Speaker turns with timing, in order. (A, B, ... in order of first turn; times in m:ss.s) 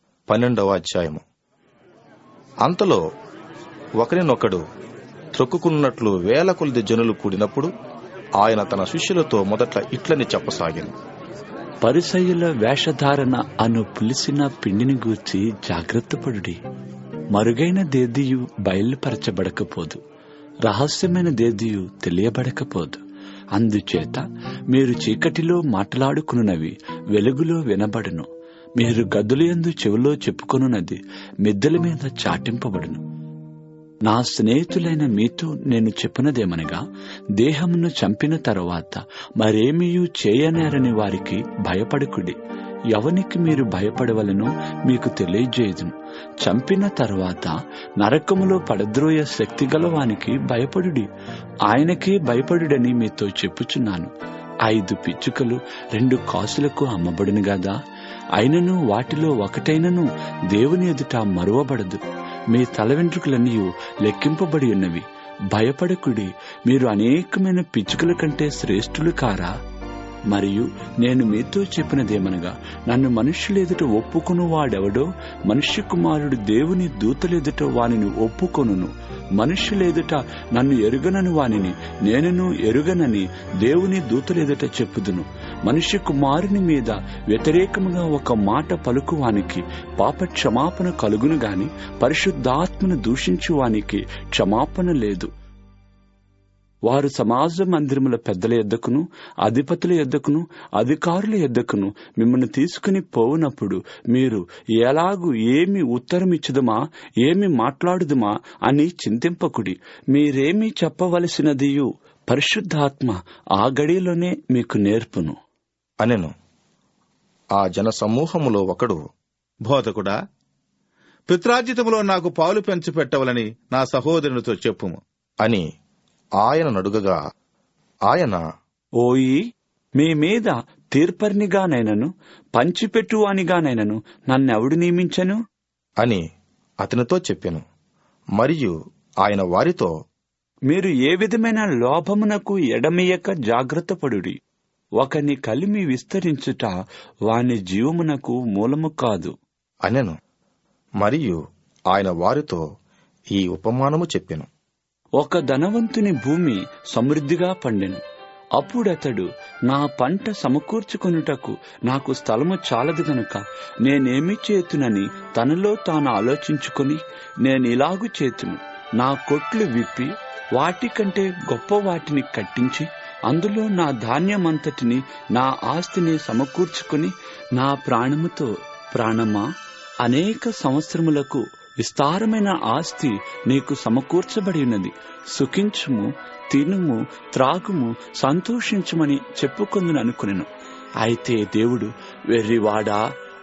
0:00.3-0:01.2 A
0:02.6-0:03.0 A
0:04.0-0:04.6 A
0:05.4-0:07.7 A
0:08.4-0:10.9 A
0:11.8-0:16.6 B
0:17.3-0:20.0 B
0:20.6-0:23.0 B
0:23.5-0:33.0 B
0:34.0-0:36.8 B
0:37.4-0:42.4 B
0:42.9-0:51.1 B
0:51.7-0:54.1 B
0:54.6-0:57.8 B
0:58.4-1:09.5 B
1:10.3-1:35.3 B
1:36.9-1:55.4 B
1:56.0-1:56.3 A
1:57.6-1:59.0 A
1:59.7-2:00.2 C
2:01.3-2:05.0 C
2:06.4-2:07.2 A
2:08.1-2:08.4 A
2:09.0-2:09.4 B
2:10.0-2:15.4 B
2:16.8-2:17.6 A
2:18.4-2:18.7 A
2:19.2-2:19.9 A
2:20.7-2:24.4 B
2:25.0-2:26.7 B
2:27.3-2:29.3 B
2:29.8-2:30.1 A
2:31.0-2:31.4 A
2:31.9-2:32.6 A
2:33.3-2:34.5 A
2:35.2-2:38.0 B
2:38.6-2:59.4 B
3:00.0-3:10.5 B
3:11.0-3:13.0 B